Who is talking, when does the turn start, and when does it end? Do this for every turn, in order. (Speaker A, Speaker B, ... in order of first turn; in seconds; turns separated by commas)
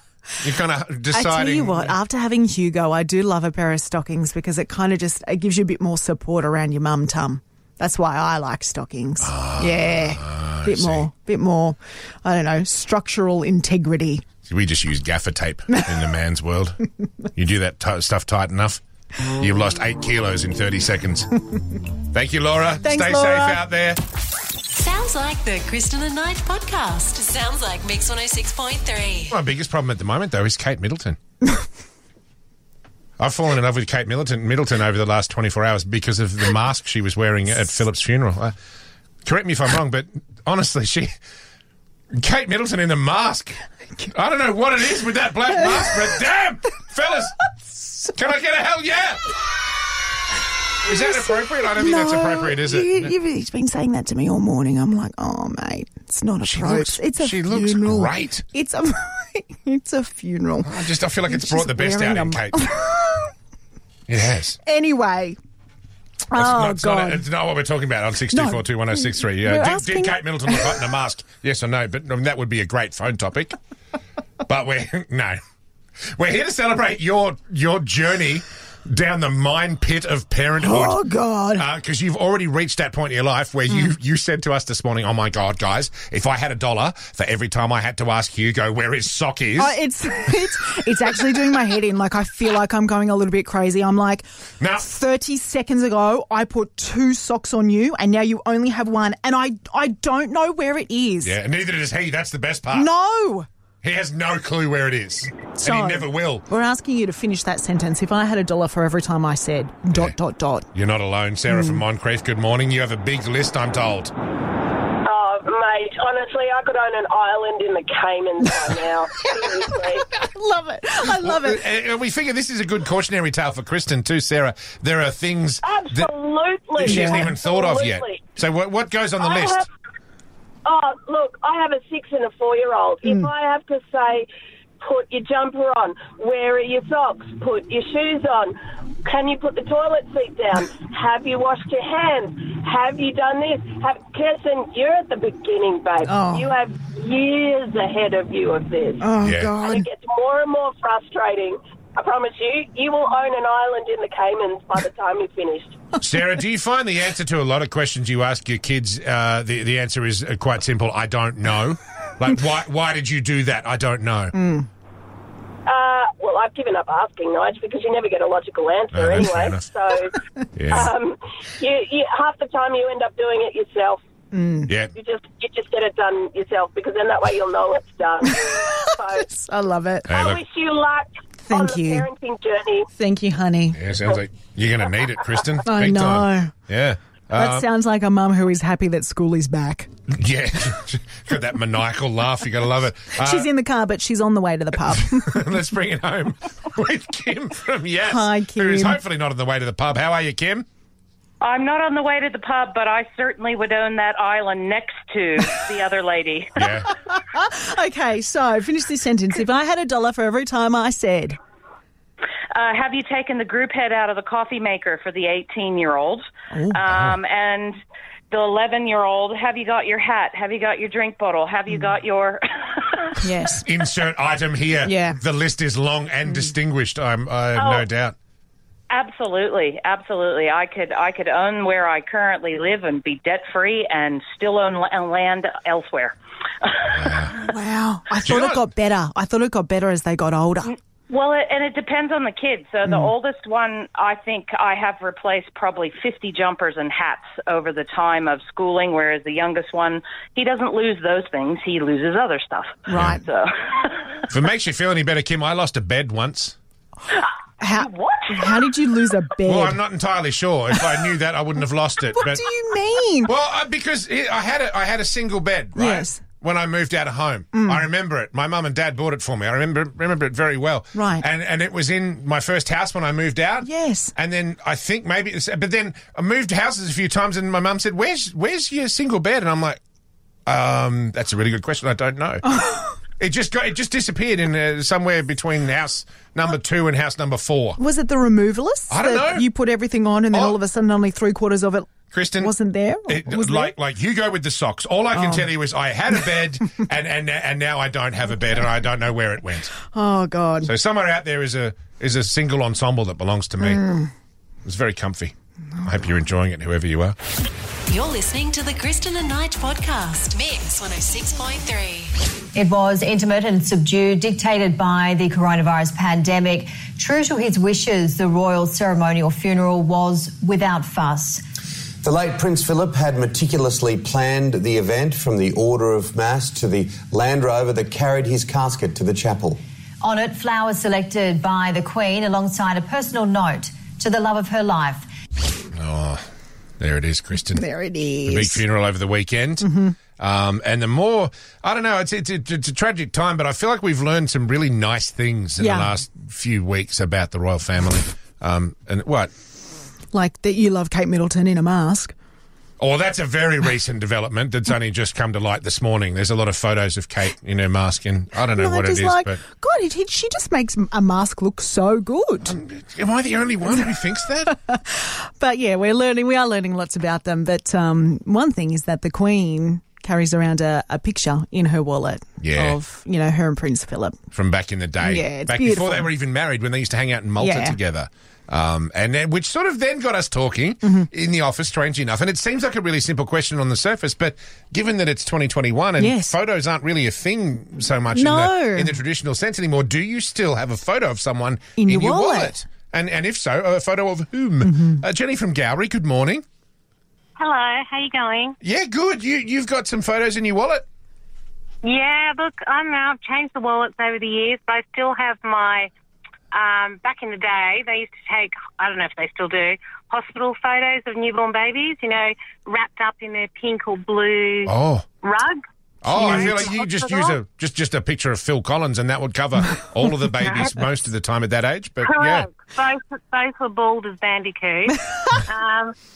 Speaker A: 0.4-2.0, Speaker B: 1.1-14.2, Speaker A: 9.2-11.1, Speaker A: 14.5-16.8, Speaker A: 17.4-21.3, Speaker A: 22.1-24.0, Speaker B: 22.8-23.6, Speaker C: 24.8-29.3, Speaker A: 29.3-31.2, Speaker A: 33.2-38.5, Speaker A: 39.2-41.1, Speaker A: 42.2-47.3, Speaker B: 45.6-46.0, Speaker A: 48.1-49.2, Speaker A: 50.8-53.1, Speaker B: 50.9-63.3, Speaker A: 56.4-58.5, Speaker A: 60.6-62.6, Speaker A: 64.1-64.6, Speaker B: 64.7-65.4, Speaker B: 66.3-67.3, Speaker A: 66.3-73.6, Speaker B: 68.3-70.9, Speaker A: 74.5-75.4, Speaker A: 76.2-81.0, Speaker B: 80.6-81.7, Speaker A: 81.5-89.8, Speaker B: 89.6-101.4, Speaker A: 94.6-94.9, Speaker A: 101.2-102.9, Speaker B: 102.7-103.5, Speaker A: 103.8-106.5, Speaker B: 105.6-110.7, Speaker A: 110.7-114.1, Speaker B: 111.5-111.8, Speaker D: 115.0-120.0, Speaker B: 119.6-121.6, Speaker A: 121.1-126.1, Speaker D: 125.6-128.2, Speaker B: 126.8-127.3, Speaker A: 126.8-129.7, Speaker D: 129.2-129.7, Speaker D: 130.7-134.3, Speaker D: 134.8-149.1, Speaker B: 146.1-146.5, Speaker B: 149.0-149.9, Speaker A: 149.2-149.5, Speaker D: 149.6-155.8, Speaker A: 156.0-164.3, Speaker B: 164.3-164.7, Speaker D: 165.7-170.2, Speaker A: 168.9-169.7, Speaker A: 170.6-170.9, Speaker D: 170.7-174.0, Speaker B: 174.3-174.7, Speaker D: 175.0-179.3, Speaker B: 178.4-180.1, Speaker A: 180.1-180.4, Speaker D: 180.1-182.9, Speaker B: 181.4-182.1, Speaker B: 182.9-183.8, Speaker A: 183.7-187.7, Speaker B: 185.7-186.5, Speaker B: 187.3-189.9, Speaker A: 190.1-193.5, Speaker B: 193.2-195.4, Speaker A: 194.9-200.7, Speaker B: 198.1-199.0, Speaker E: 201.4-206.5, Speaker A: 206.6-206.9, Speaker B: 207.1-211.4, Speaker E: 212.6-217.8, Speaker B: 216.5-216.8, Speaker A: 216.9-217.2, Speaker E: 218.3-223.2, Speaker B: 223.2-223.7, Speaker A: 223.7-228.2, Speaker B: 224.8-225.2, Speaker B: 226.3-226.5, Speaker E: 227.6-227.9, Speaker E: 228.9-237.1, Speaker A: 236.9-237.3, Speaker B: 237.3-240.7, Speaker A: 238.2-238.6, Speaker E: 240.7-254.2, Speaker B: 252.9-253.2, Speaker A: 252.9-253.2, Speaker A: 254.3-256.6, Speaker B: 257.6-259.8, Speaker E: 257.7-258.2, Speaker A: 259.4-262.4, Speaker B: 262.1-263.3, Speaker A: 263.2-279.8, Speaker B: 265.8-266.2, Speaker B: 267.5-267.9, Speaker B: 270.9-271.2, Speaker B: 273.6-274.1, Speaker A: 280.5-282.6, Speaker B: 282.5-282.8, Speaker A: 283.2-287.8, Speaker B: 287.8-293.7, Speaker A: 288.9-289.5, Speaker A: 290.3-290.6, Speaker A: 292.1-292.6, Speaker A: 293.1-299.7, Speaker B: 295.1-295.5, Speaker B: 299.9-300.7, Speaker A: 300.6-303.8, Speaker B: 303.6-304.1, Speaker A: 304.6-307.2, Speaker C: 307.9-312.1, Speaker F: 312.5-321.4, Speaker G: 322.0-329.6, Speaker F: 330.0-335.1, Speaker A: 335.8-336.2, Speaker A: 336.8-337.6, Speaker B: 337.6-338.6, Speaker A: 338.3-349.3, Speaker B: 339.6-339.9, Speaker B: 345.6-346.0, Speaker B: 350.1-352.1, Speaker A: 352.8-359.4, Speaker B: 358.6-362.6, Speaker A: 362.4-364.5, Speaker B: 364.5-374.2, Speaker A: 372.4-372.8, Speaker A: 374.3-396.4, Speaker B: 375.0-376.1, Speaker B: 377.4-377.8, Speaker B: 380.8-381.1, Speaker B: 386.0-386.4, Speaker B: 388.1-389.0, Speaker B: 391.8-392.6, Speaker B: 394.6-395.0, Speaker H: 397.4-398.6, Speaker A: 398.6-400.9, Speaker H: 401.8-405.9, Speaker H: 406.5-417.4, Speaker A: 414.7-415.1, Speaker A: 416.0-422.5, Speaker B: 416.1-416.7, Speaker H: 420.5-420.9, Speaker H: 422.0-425.9